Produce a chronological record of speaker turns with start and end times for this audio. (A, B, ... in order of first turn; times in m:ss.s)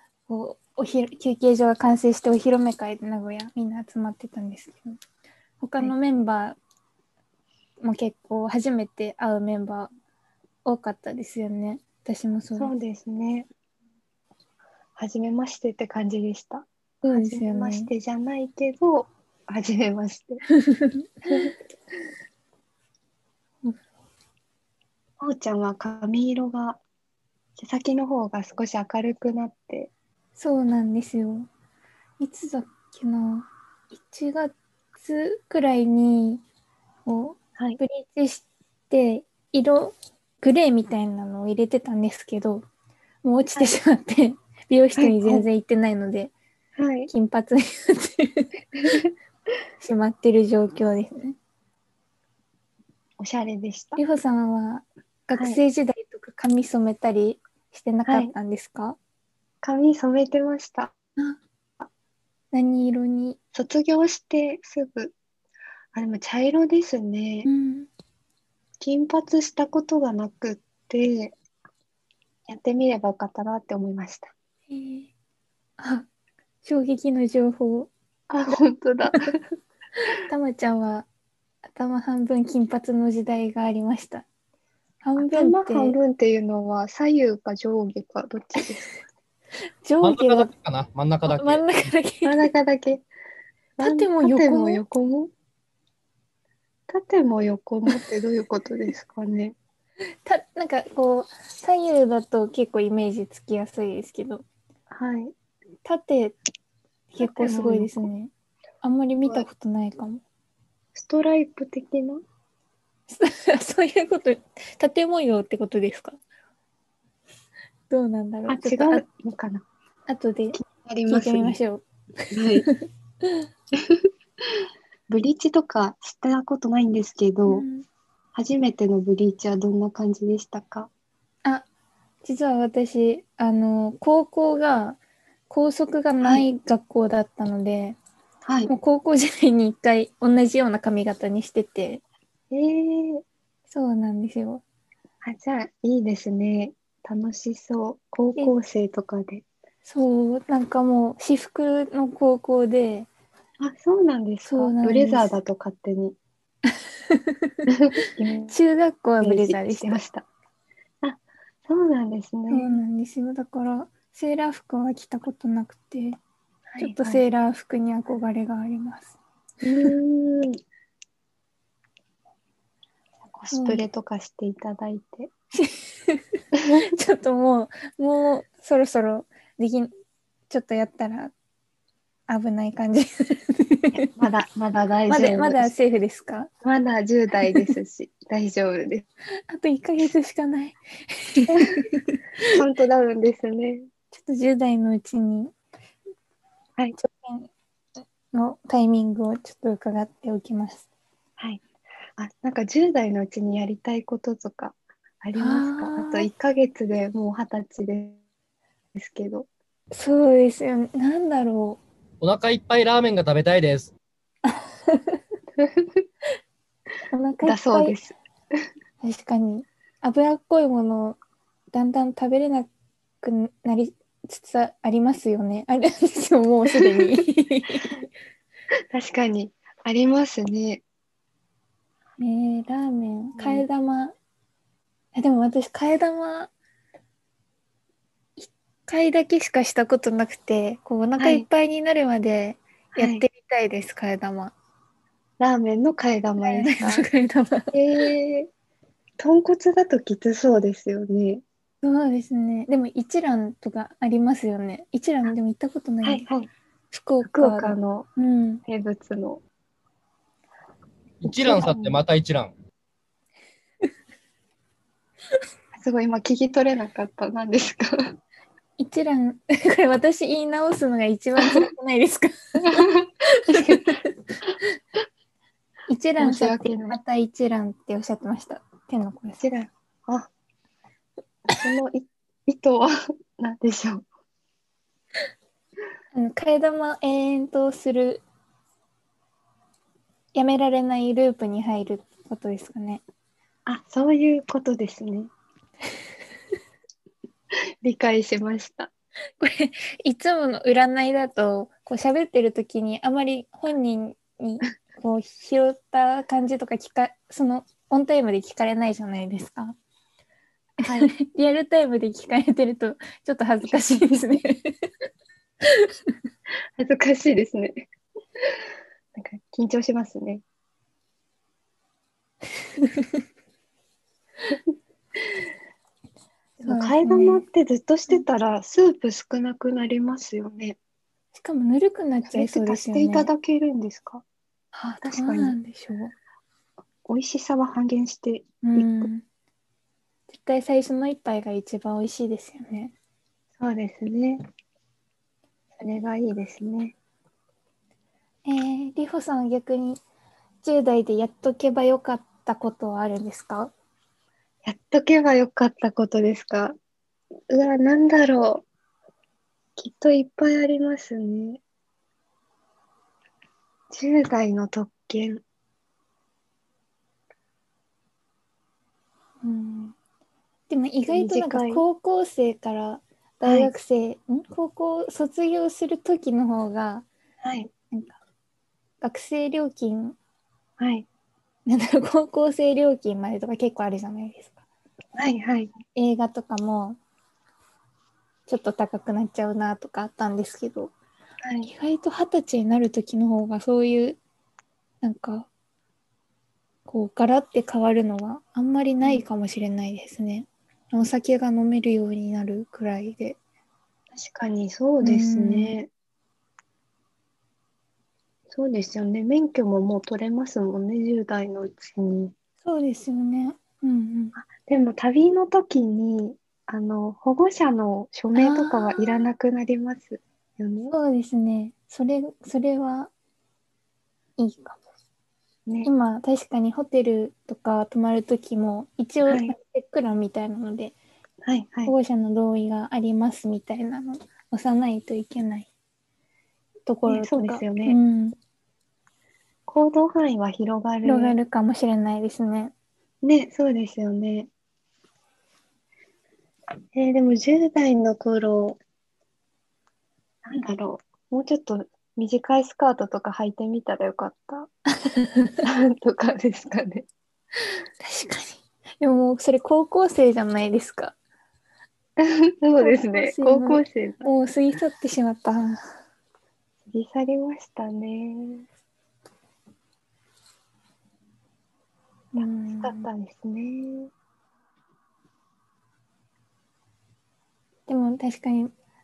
0:00.3-0:05.0 A
0:05.6-0:06.6 A
0:07.8-0:09.9 A
0:10.6-0:12.7 A
0:12.6-0:13.5 B
0:15.0-0:20.4 B
0:17.0-0:17.9 A
0:20.6-0:21.5 A
0:21.3-0:21.5 B
0:25.2-0:26.8 B
0:27.6-0:29.9 B
0:30.4-0:31.5 A
0:32.2-0:36.4 A
0:37.1-0:42.6 A
0:43.2-0:46.3 A
0:45.0-0:45.5 B
0:46.8-0:47.1 B
0:47.1-0:49.0 A
0:49.8-0:51.4 A
0:53.2-0:54.0 B
0:54.0-0:59.0 A
0:58.1-0:58.3 B
0:59.6-1:00.9 B
1:02.5-1:03.4 A
1:03.5-1:05.1 B
1:06.0-1:07.5 B
1:07.4-1:07.9 A
1:08.8-1:11.4 B
1:12.5-1:14.3 B
1:14.7-1:15.1 A
1:15.8-1:16.1 A
1:16.6-1:17.9 A
1:18.3-1:19.4 B
1:20.2-1:21.1 A
1:21.7-1:24.3 A
1:25.0-1:26.0 A
1:25.2-1:28.9 B
1:29.8-1:30.5 A
1:30.0-1:31.7 C
1:31.3-1:32.5 A
1:32.2-1:33.0 B
1:33.8-1:35.3 B
1:33.8-1:34.8 A
1:36.9-1:39.6 B
1:40.3-1:44.4 A
1:44.9-1:45.3 B
1:45.8-1:46.4 A
1:47.1-1:48.3 A
1:47.2-1:48.1 B
1:48.8-1:50.2 A
1:50.9-1:52.2 B
1:53.1-1:56.2 A
1:57.9-1:59.0 A
1:58.5-1:59.6 B
2:00.1-2:03.5 A
2:00.5-2:01.6 B
2:02.3-2:02.7 B
2:03.8-2:07.7 B
2:07.5-2:07.9 A
2:08.4-2:10.9 B
2:12.2-2:15.0 A
2:15.5-2:18.0 A
2:18.5-2:18.7 B
2:18.7-2:22.0 A
2:22.5-2:23.2 B
2:23.7-2:24.6 A
2:25.2-2:29.4 B
2:29.8-2:33.1 A
2:33.6-2:36.2 B
2:34.4-2:35.3 A
2:36.7-2:37.6 A
2:37.7-2:38.6 B
2:38.5-2:40.0 A
2:39.2-2:40.3 B
2:41.0-2:42.7 B
2:42.5-2:46.2 A
2:46.7-2:47.2 B
2:46.8-2:49.2 A
2:49.6-2:50.6 B
2:53.3-2:55.3 B
2:53.5-2:53.8 A
2:55.6-2:56.2 A
2:56.8-2:59.9 A
3:00.5-3:01.3 A
3:02.3-3:04.1 A
3:04.2-3:05.7 B
3:05.1-3:06.5 A
3:06.6-3:09.0 B
3:09.5-3:12.6 A
3:12.5-3:13.9 B
3:14.1-3:15.5 A
3:17.0-3:17.5 A
3:18.3-3:20.8 A
3:21.4-3:21.6 B
3:22.2-3:28.2 B
3:25.4-3:26.3 A
3:29.0-3:29.5 B
3:29.9-3:31.8 A
3:32.2-3:33.9 C
3:34.5-3:35.2 A
3:35.6-3:36.0 B
3:37.1-3:38.0 A
3:37.4-3:38.2 B
3:39.0-3:41.2 A
3:41.7-3:42.7 A
3:43.2-3:48.0 A
3:48.9-3:50.8 B
3:52.2-3:54.1 A
3:53.4-3:53.6 B
3:55.2-3:56.5 A
3:58.4-4:04.5 A
4:01.2-4:01.5 B
4:03.0-4:03.2 B
4:05.4-4:07.0 B
4:06.4-4:07.7 A
4:07.7-4:08.5 B
4:09.2-4:11.4 B
4:11.8-4:16.3 A
4:16.0-4:16.5 B
4:16.9-4:18.6 A
4:17.2-4:18.1 B
4:18.7-4:19.4 B
4:21.2-4:22.5 C
4:21.4-4:21.9 A
4:25.8-4:28.2 B
4:28.8-4:34.3 A
4:32.6-4:34.0 B
4:35.9-4:39.4 A
4:36.2-4:37.0 B
4:39.4-4:40.3 B
4:41.5-4:44.0 B
4:46.1-4:48.2 A
4:50.3-4:53.0 A
4:53.7-4:55.3 B
4:57.8-4:58.9 B
4:59.4-5:09.8 A
5:10.8-5:14.9 A
5:10.8-5:11.1 B
5:13.7-5:14.2 B
5:16.8-5:17.9 B
5:18.4-5:20.4 B
5:22.8-5:23.2 A
5:26.6-5:27.4 A
5:26.6-5:30.8 B
5:31.3-5:33.3 A
5:32.3-5:34.2 B
5:34.7-5:36.1 A
5:35.0-5:35.6 B
5:37.1-5:39.1 B
5:38.6-5:39.2 A
5:40.3-5:42.9 A
5:43.6-5:44.4 B
5:45.8-5:47.0 B
5:48.5-5:50.0 A
5:50.6-5:53.7 A
5:54.6-5:56.8 B
5:57.5-5:58.6 B
5:59.8-6:01.6 B
6:03.9-6:05.4 B
6:09.4-6:10.0 A
6:10.7-6:17.1 A
6:11.1-6:11.8 B
6:13.4-6:13.7 B
6:17.4-6:17.7 B
6:17.9-6:18.2 A
6:19.0-6:20.2 A
6:20.8-6:21.1 B
6:21.7-6:24.6 A
6:25.2-6:25.7 B
6:25.9-6:27.0 A
6:28.5-6:30.9 A
6:31.4-6:31.7 B
6:31.6-6:34.2 A
6:35.0-6:35.5 A
6:36.9-6:43.4 A
6:44.1-6:45.9 B
6:45.0-6:45.8 A
6:48.5-6:52.3 B
6:52.6-6:54.4 A
6:54.4-7:00.9 B
6:58.4-6:59.3 A
7:00.9-7:03.1 A
7:04.4-7:04.8 A
7:05.8-7:11.0 A
7:09.3-7:09.6 B
7:11.4-7:11.9 B
7:11.8-7:15.7 A
7:16.9-7:18.4 A
7:17.1-7:18.0 B
7:19.7-7:21.4 B
7:21.0-7:22.7 A
7:23.2-7:24.5 B
7:26.9-7:28.8 B
7:30.4-7:34.7 B
7:35.0-7:35.6 A
7:35.6-7:37.1 B
7:38.0-7:41.2 A
7:42.2-7:44.3 B
7:42.8-7:45.8 A
7:46.9-7:48.7 B
7:52.4-7:53.1 A
7:52.4-7:54.1 B
7:57.9-7:58.7 A